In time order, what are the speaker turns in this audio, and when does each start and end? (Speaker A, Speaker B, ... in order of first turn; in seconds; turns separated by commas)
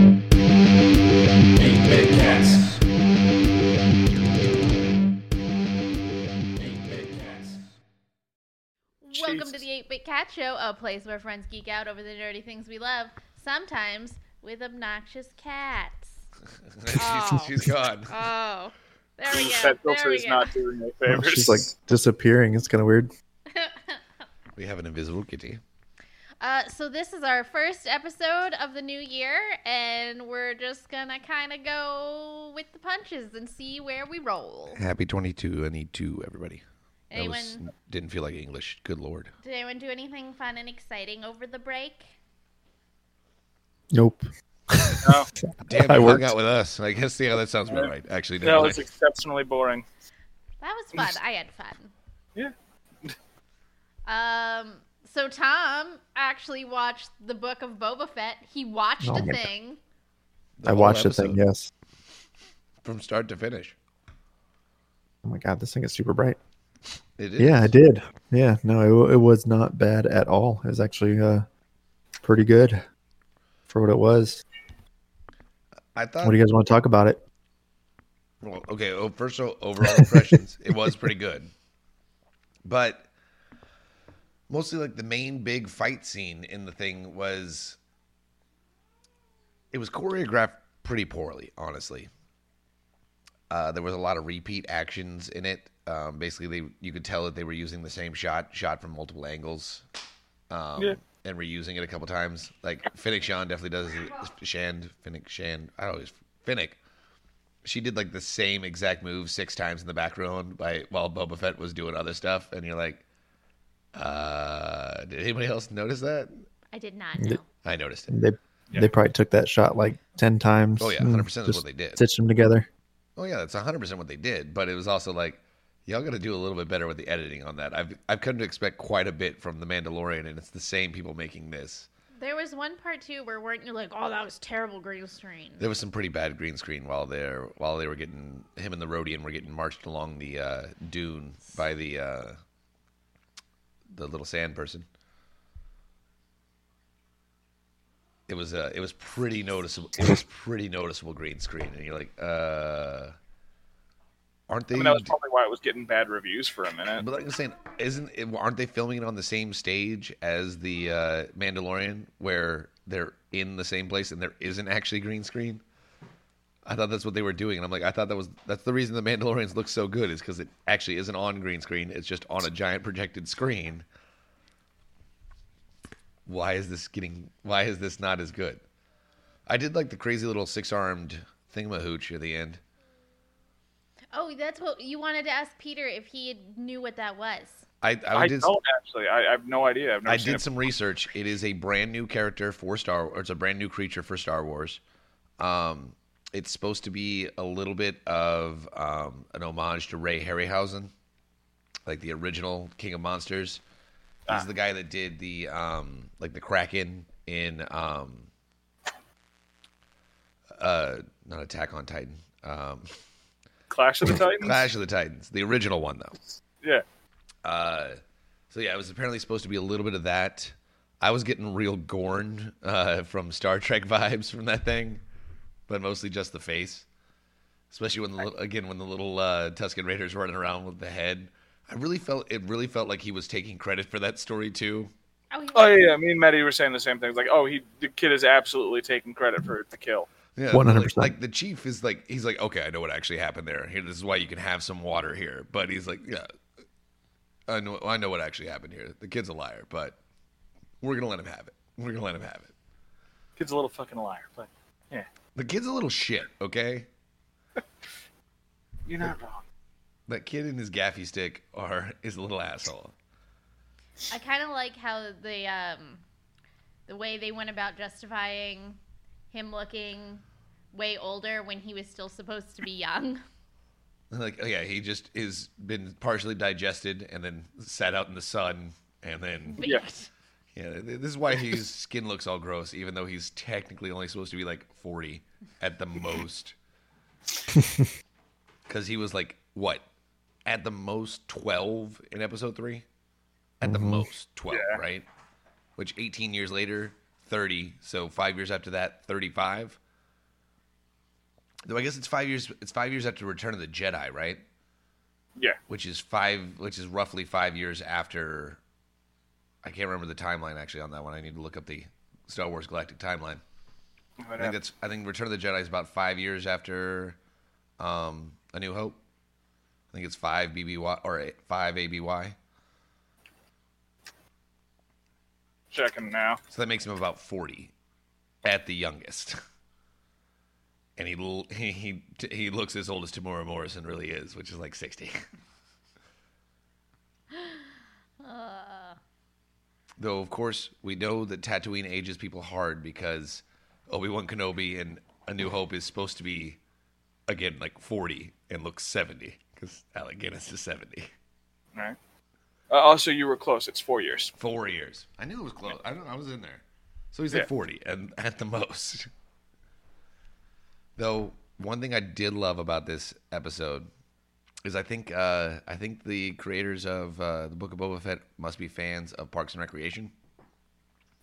Speaker A: 1.6-2.8, Speaker A: 6.8-7.6, Speaker B: 9.0-16.2, Speaker C: 9.1-9.6, Speaker A: 16.8-18.1, Speaker B: 16.9-20.5, Speaker C: 19.3-21.7, Speaker D: 21.1-23.1, Speaker B: 23.5-24.0, Speaker A: 24.6-25.6, Speaker B: 26.4-34.8, Speaker A: 34.8-39.3, Speaker B: 37.1-37.6, Speaker B: 39.4-42.1, Speaker D: 43.9-46.3, Speaker C: 45.0-45.3, Speaker A: 45.6-48.8, Speaker C: 48.4-49.9, Speaker B: 50.6-51.9, Speaker C: 52.4-53.1, Speaker B: 54.0-59.8, Speaker D: 59.0-59.5, Speaker A: 60.6-61.4, Speaker D: 60.7-61.7, Speaker A: 62.8-63.8, Speaker D: 65.2-66.4, Speaker A: 67.2-67.7, Speaker D: 67.4-71.5, Speaker D: 72.2-72.8, Speaker D: 73.7-74.4, Speaker A: 75.9-76.4, Speaker D: 76.2-77.2, Speaker A: 78.4-81.5, Speaker A: 82.6-83.1, Speaker A: 84.5-87.8, Speaker A: 89.7-92.1, Speaker A: 93.5-99.8, Speaker A: 100.5-106.8, Speaker A: 107.6-113.0, Speaker A: 113.9-116.3, Speaker B: 116.7-117.5, Speaker A: 117.6-118.1, Speaker D: 118.1-122.7, Speaker A: 120.8-122.0, Speaker A: 123.2-131.9, Speaker B: 132.2-135.7, Speaker A: 135.6-142.4, Speaker A: 143.9-144.8, Speaker A: 148.3-153.1, Speaker A: 154.5-155.1, Speaker C: 154.7-157.0, Speaker A: 157.0-165.6, Speaker A: 166.7-173.8, Speaker A: 176.2-178.6, Speaker A: 179.4-182.6, Speaker B: 184.1-187.6, Speaker A: 187.8-188.5, Speaker C: 188.1-190.4, Speaker A: 190.1-194.8, Speaker A: 195.4-200.9, Speaker A: 201.8-203.6, Speaker A: 204.3-208.3, Speaker A: 210.6-212.9, Speaker C: 213.7-214.7, Speaker A: 214.4-216.2, Speaker A: 217.4-218.0, Speaker A: 218.5-225.0, Speaker A: 225.7-226.8, Speaker A: 227.7-234.9, Speaker B: 235.3-235.9, Speaker C: 235.5-240.1, Speaker A: 240.3-246.3, Speaker D: 240.5-241.1, Speaker A: 247.5-250.0, Speaker A: 250.8-252.5, Speaker C: 253.4-255.1, Speaker A: 255.3-256.9, Speaker C: 258.9-259.4, Speaker A: 260.1-262.9, Speaker B: 264.1-266.0, Speaker B: 266.9-268.8, Speaker B: 269.3-273.2, Speaker A: 274.1-279.7, Speaker B: 279.5-280.1, Speaker A: 280.5-286.6, Speaker A: 288.7-289.9, Speaker A: 290.4-292.9, Speaker A: 293.6-295.1, Speaker D: 293.6-294.1, Speaker C: 294.5-294.8, Speaker A: 295.8-299.8, Speaker A: 301.7-304.4, Speaker A: 305.7-308.6, Speaker A: 309.6-313.4, Speaker C: 314.2-314.6, Speaker A: 314.4-317.2, Speaker A: 317.8-319.0, Speaker A: 319.9-322.4, Speaker C: 325.7-326.4, Speaker A: 326.5-327.7, Speaker A: 328.4-329.4, Speaker A: 331.0-335.2, Speaker B: 337.3-337.6, Speaker B: 338.2-339.0, Speaker A: 340.0-346.6, Speaker A: 347.3-351.1, Speaker C: 352.7-354.3, Speaker A: 354.4-359.1, Speaker A: 361.0-363.9, Speaker A: 364.6-370.1